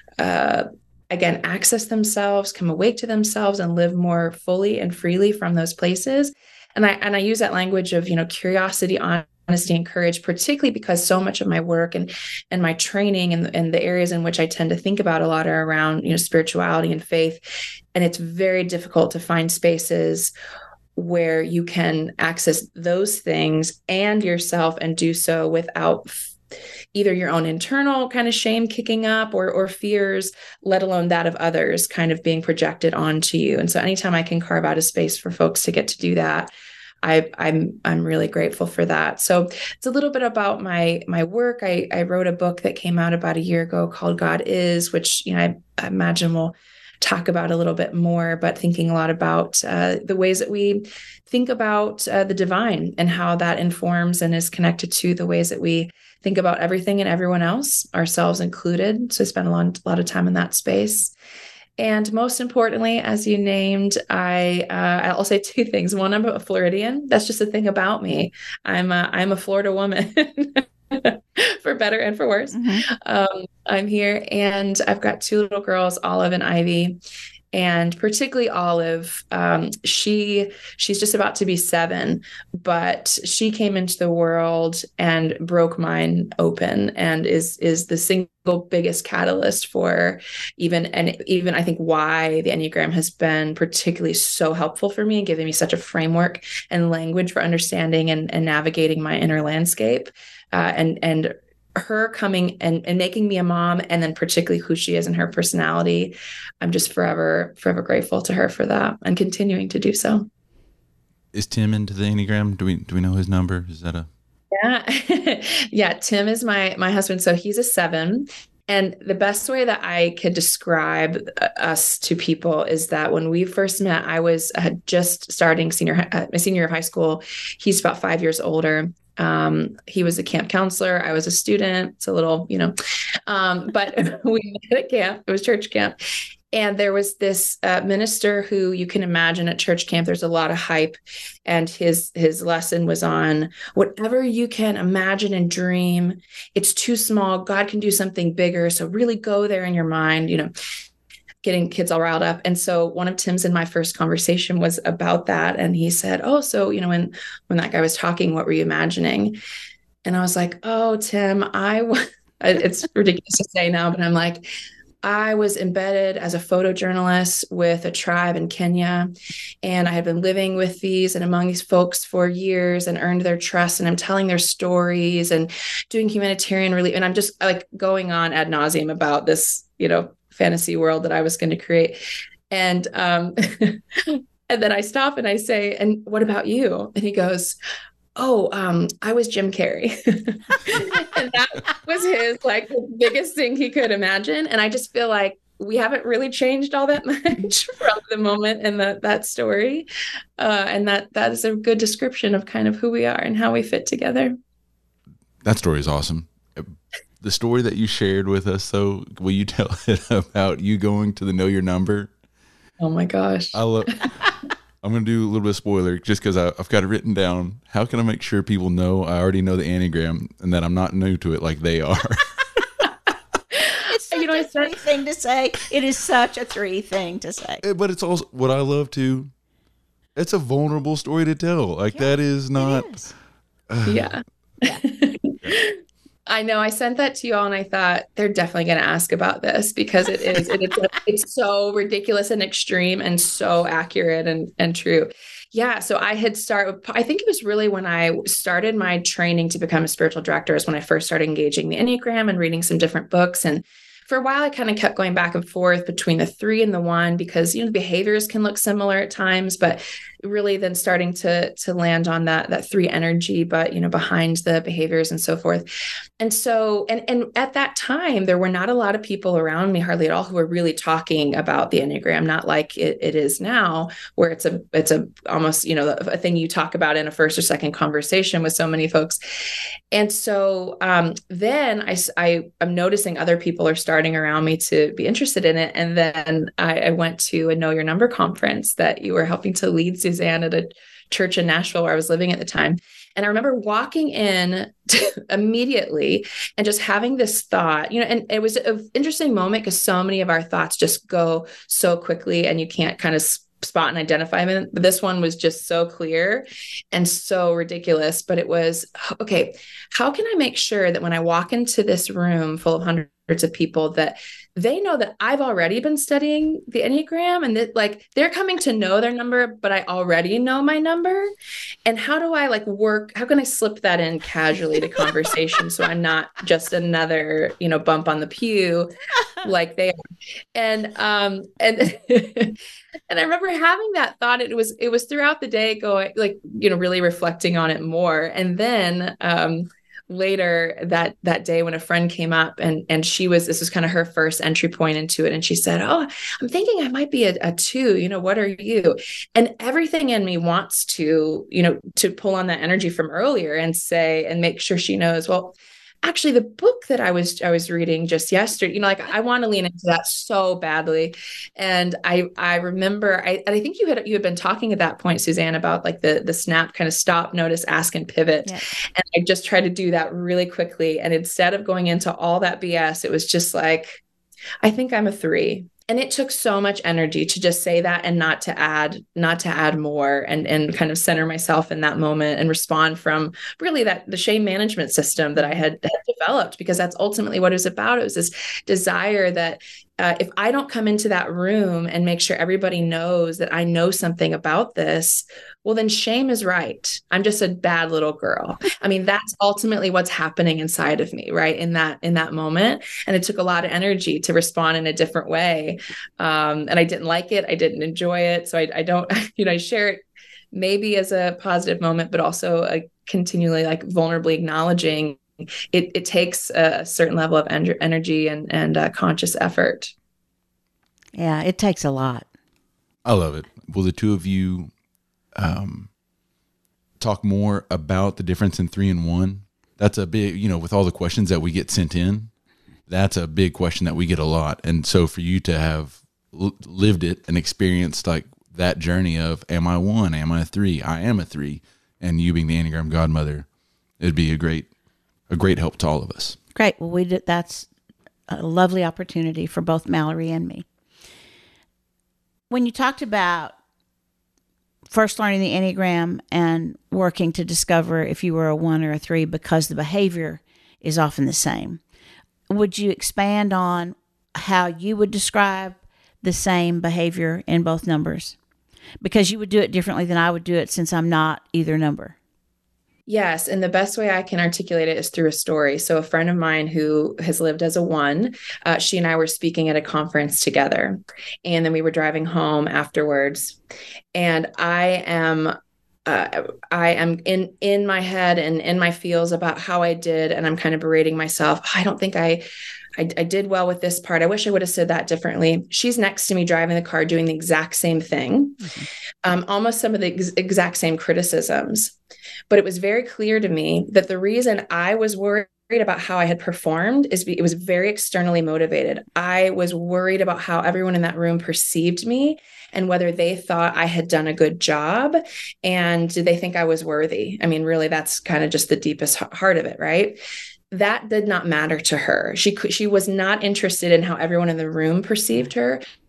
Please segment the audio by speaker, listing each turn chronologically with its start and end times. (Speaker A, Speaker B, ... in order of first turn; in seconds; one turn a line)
Speaker A: 0.2-20.3
Speaker A: 20.9-26.3
Speaker A: 26.9-36.5
Speaker A: 37.0-61.1
Speaker A: 61.8-77.0
Speaker B: 72.5-72.8
Speaker A: 77.5-110.3
Speaker C: 111.3-114.1
Speaker A: 114.5-132.7
Speaker A: 133.3-135.9
Speaker A: 136.5-150.5
Speaker A: 151.4-159.4
Speaker A: 160.0-164.5
Speaker A: 165.0-169.1
Speaker A: 169.6-182.0
Speaker A: 182.5-187.6
Speaker A: 188.2-204.3
Speaker C: 205.4-212.1
Speaker A: 212.8-214.1
Speaker C: 213.5-214.1
Speaker C: 214.8-222.2
Speaker A: 223.6-224.7
Speaker B: 223.9-227.6
Speaker C: 227.6-229.3
Speaker C: 230.2-233.0
Speaker B: 231.9-233.1
Speaker C: 233.7-234.1
Speaker A: 233.8-235.7
Speaker A: 236.3-279.2
Speaker A: 279.9-321.3
Speaker A: 321.9-330.0
Speaker A: 330.5-332.6
Speaker A: 333.1-374.0
Speaker A: 374.6-415.2
Speaker A: 415.7-419.9
Speaker B: 421.1-422.3
Speaker C: 423.0-424.7
Speaker C: 425.3-425.9
Speaker C: 427.0-432.3
Speaker C: 432.9-443.5
Speaker C: 444.0-444.7
Speaker C: 445.3-446.4
Speaker B: 446.5-447.7
Speaker B: 448.3-450.6
Speaker B: 452.5-453.5
Speaker B: 454.9-461.8
Speaker B: 462.5-468.4
Speaker B: 469.0-472.1
Speaker A: 473.1-483.6
Speaker A: 484.1-492.4
Speaker A: 493.0-498.7
Speaker B: 498.6-498.9
Speaker A: 499.2-501.9
Speaker A: 502.5-520.2
Speaker A: 520.7-525.8